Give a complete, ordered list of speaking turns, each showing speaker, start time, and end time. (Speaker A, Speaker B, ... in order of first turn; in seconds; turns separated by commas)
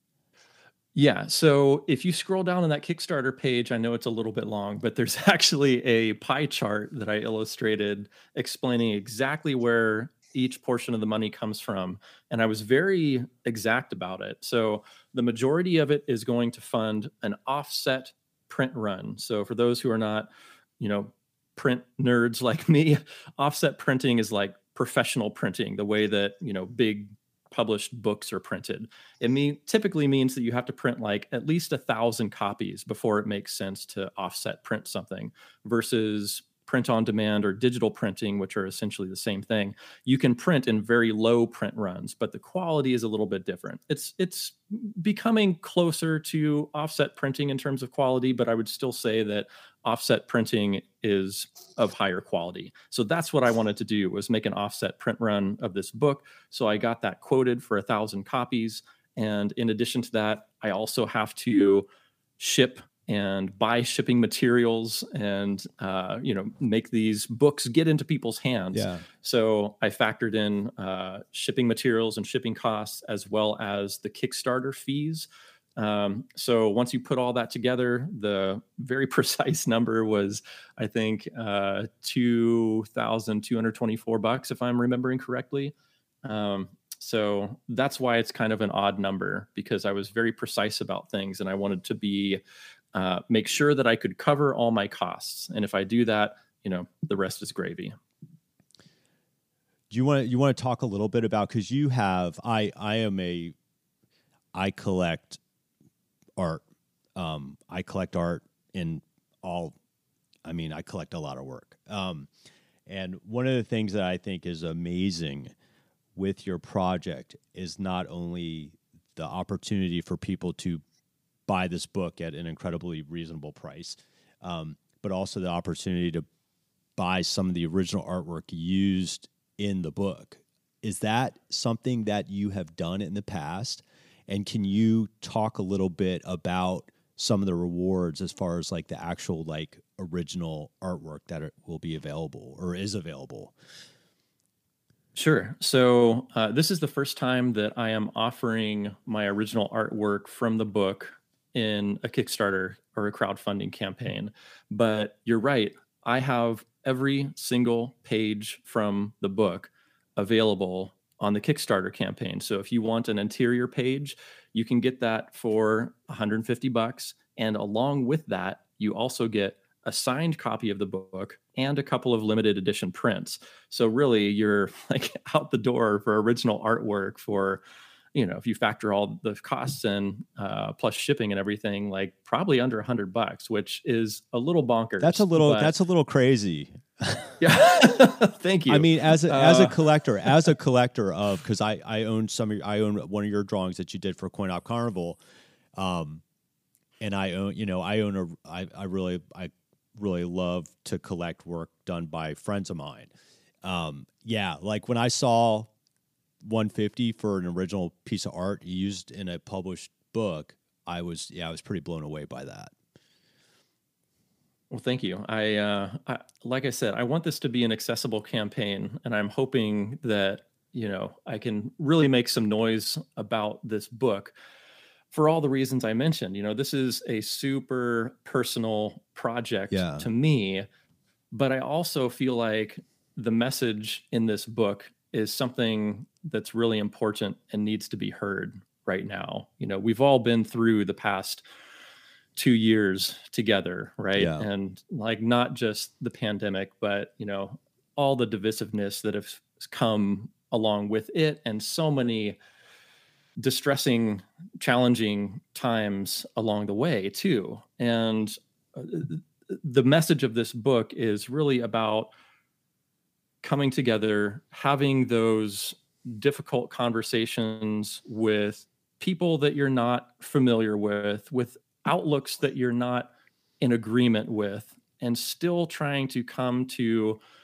Speaker A: 0.9-61.9, Speaker A: 62.4-92.4, Speaker B: 68.7-69.0, Speaker A: 92.9-98.0, Speaker B: 99.9-103.5, Speaker B: 104.5-105.4, Speaker B: 106.4-106.6, Speaker B: 107.2-109.8, Speaker B: 110.5-112.3, Speaker B: 112.9-115.5, Speaker B: 116.2-120.8, Speaker B: 121.5-126.2, Speaker B: 127.0-143.5, Speaker A: 145.2-177.6, Speaker A: 178.2-185.7, Speaker B: 185.0-187.4, Speaker A: 187.4-189.8, Speaker B: 188.7-195.2, Speaker B: 195.8-196.2, Speaker B: 197.0-203.1, Speaker B: 203.6-205.7, Speaker B: 206.4-212.7, Speaker A: 214.7-224.3, Speaker A: 225.1-230.7, Speaker B: 229.7-230.1, Speaker A: 231.3-241.4, Speaker A: 242.4-252.4, Speaker B: 244.2-244.4, Speaker A: 253.4-262.1, Speaker A: 263.4-277.2